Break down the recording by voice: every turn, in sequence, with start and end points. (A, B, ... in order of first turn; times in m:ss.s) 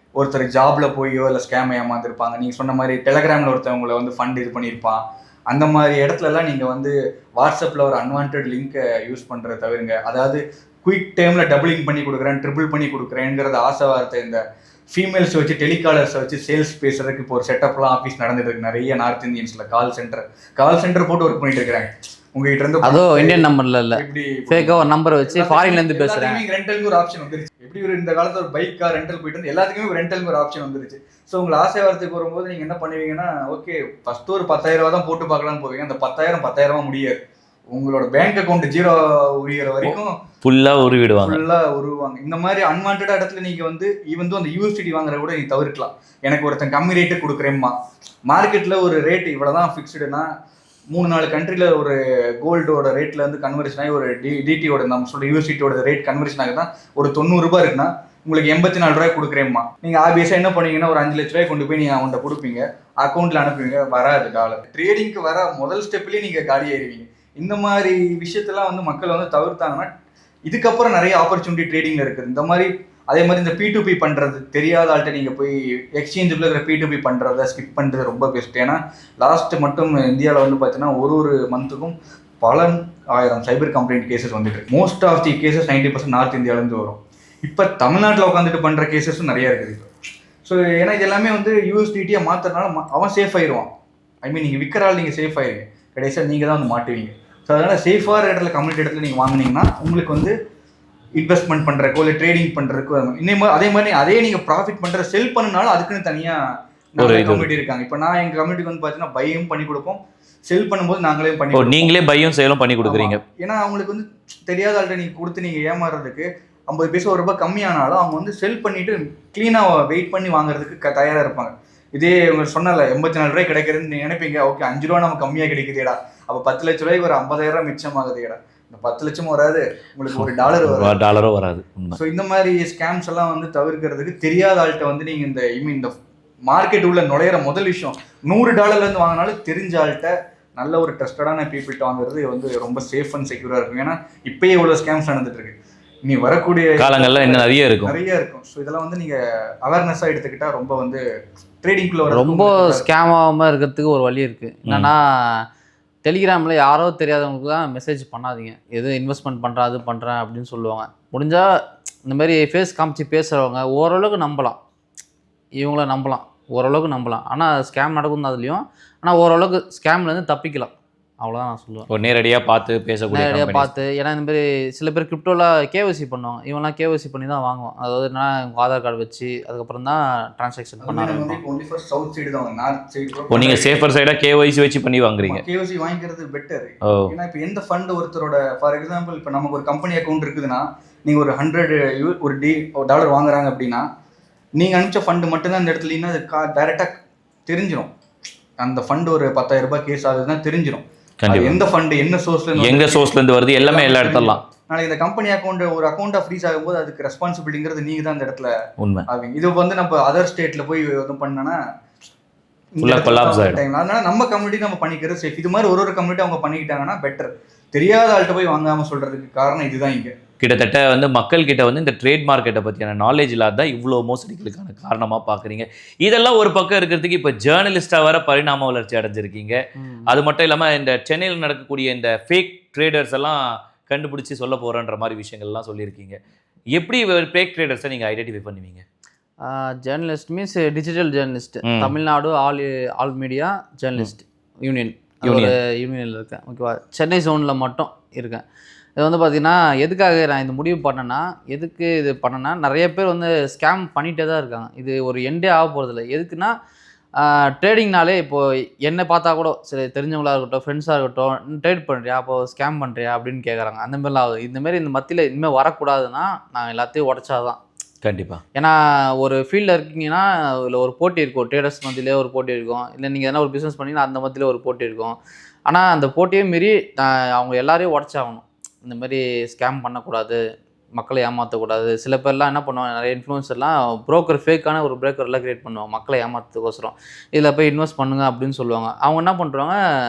0:00.2-0:37.2 A
0:22.8-0:26.4 B
0:37.7-0:40.2 A
0:39.8-0:41.4 C
0:41.2-0:47.7 A
0:48.3-0:50.3 A
0:50.9-1:09.9 A
1:10.5-1:29.8 A
1:30.4-1:33.7 A
1:34.2-1:40.3 A
1:41.2-1:46.4 A
1:46.9-1:51.9 A
1:47.0-1:47.5 C
1:51.5-1:53.2 C
1:52.8-2:11.0 A
2:10.1-2:12.0 C
2:11.9-2:15.9 A
2:16.5-2:31.0 A
2:26.8-2:28.0 C
2:31.6-2:32.8 A
2:32.1-2:35.4 B
2:34.6-2:34.9 C
2:36.0-2:41.4 B
2:42.0-2:44.6 B
2:45.6-2:51.9 B
2:51.9-2:53.7 C
2:53.1-3:01.4 B
3:00.8-3:03.8 A
3:03.3-3:05.4 C
3:05.2-3:13.8 A
3:06.9-3:07.1 C
3:14.6-3:17.9 A
3:18.6-3:28.5 A
3:21.2-3:21.7 C
3:22.6-3:24.4 C
3:28.8-3:29.0 C
3:29.1-3:31.6 A
3:32.8-3:40.1 A
3:32.8-3:33.6 C
3:40.4-3:56.2 C
3:49.8-3:50.1 B
3:56.8-3:58.8 C
3:59.4-4:08.4 B
4:01.7-4:01.9 C
4:05.2-4:05.6 C
4:09.0-4:16.5 B
4:17.2-4:27.6 B
4:28.0-4:28.4 C
4:28.6-4:35.1 B
4:35.7-4:40.4 B
4:41.0-4:49.8 B